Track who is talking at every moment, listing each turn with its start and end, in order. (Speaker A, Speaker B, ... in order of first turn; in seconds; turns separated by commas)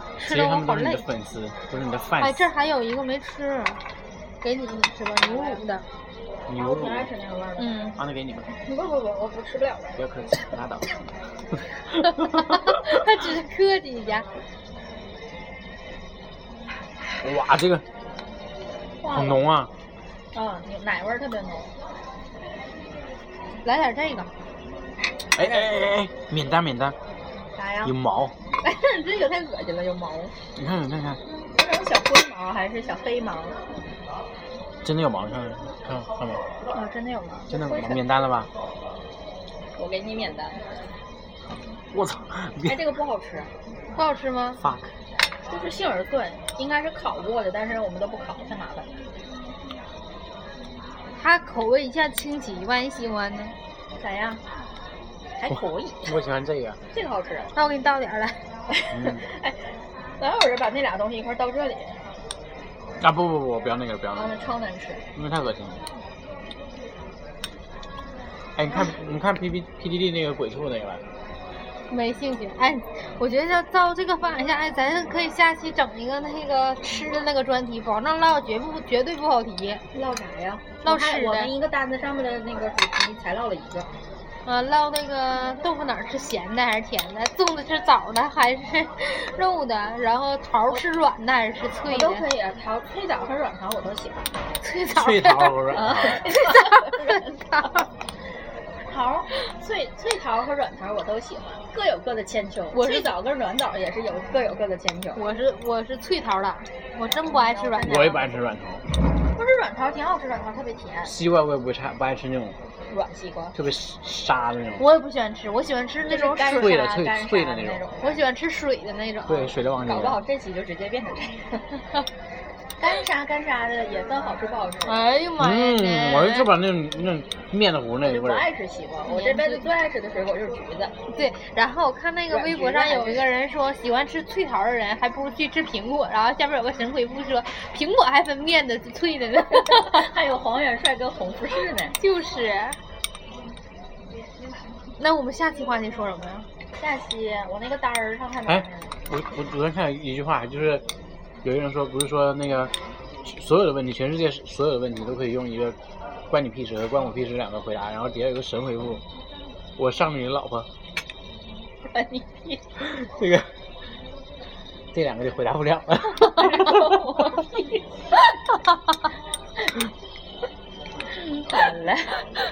Speaker A: 0.2-1.0, Speaker B: 0.2-2.5, Speaker A: 2.2-3.8, Speaker A: 4.4-5.8, Speaker B: 6.5-7.1, Speaker C: 6.5-7.9, Speaker A: 7.6-8.0, Speaker B: 8.0-8.5, Speaker C: 8.5-10.0, Speaker B: 10.0-10.9, Speaker A: 12.2-14.2, Speaker B: 17.2-17.8, Speaker C: 19.0-19.4, Speaker B: 19.1-19.7, Speaker C: 20.3-21.7, Speaker A: 23.6-24.3, Speaker B: 25.3-26.9, Speaker C: 27.6-27.9, Speaker B: 27.8-28.3, Speaker C: 28.6-30.3, Speaker B: 30.6-31.2, Speaker C: 31.5-33.6, Speaker B: 34.8-36.4, Speaker C: 36.7-38.0, Speaker B: 37.5-38.5, Speaker C: 39.8-40.6, Speaker B: 41.9-42.8, Speaker C: 42.6-43.5, Speaker A: 43.9-44.6, Speaker B: 44.6-44.9, Speaker C: 45.5-48.9, Speaker A: 51.2-53.5, Speaker C: 54.0-54.4, Speaker C: 55.4-56.1, Speaker B: 56.0-56.8, Speaker C: 56.9-57.5, Speaker A: 57.5-58.4, Speaker C: 58.7-59.6, Speaker B: 58.9-59.2, Speaker C: 60.2-62.0, Speaker B: 63.0-64.3, Speaker C: 64.1-65.0, Speaker B: 65.2-65.8, Speaker B: 68.6-71.0, Speaker A: 71.9-79.8, Speaker C: 79.9-83.9, Speaker A: 80.8-81.5, Speaker A: 84.4-92.2, Speaker C: 91.8-94.3, Speaker A: 94.6-95.6, Speaker B: 94.9-96.3, Speaker C: 95.7-97.7, Speaker A: 96.3-97.8, Speaker C: 98.8-105.2, Speaker A: 102.7-103.1, Speaker A: 105.2-108.0, Speaker C: 107.3-108.3, Speaker B: 107.8-108.8, Speaker C: 109.3-111.1, Speaker B: 111.0-112.6, Speaker C: 112.9-113.5, Speaker B: 113.5-114.8, Speaker A: 114.8-116.8, Speaker C: 116.1-118.2, Speaker B: 116.5-117.8, Speaker A: 118.0-119.5, Speaker B: 119.3-120.2, Speaker C: 119.8-121.8, Speaker C: 122.8-125.1, Speaker A: 124.8-126.5, Speaker B: 125.4-128.5, Speaker C: 128.0-130.9, Speaker A: 129.1-129.7, Speaker A: 131.1-140.0, Speaker C: 132.3-133.3, Speaker C: 139.5-142.0, Speaker A: 142.0-142.8, Speaker A: 145.0-146.5, Speaker C: 146.8-148.9, Speaker B: 148.5-150.8, Speaker B: 151.4-152.7, Speaker B: 153.2-155.8, Speaker B: 156.3-159.0, Speaker B: 159.8-160.7, Speaker C: 161.8-162.6, Speaker B: 162.8-163.5, Speaker B: 164.9-166.9, Speaker C: 166.2-167.8, Speaker C: 171.1-172.2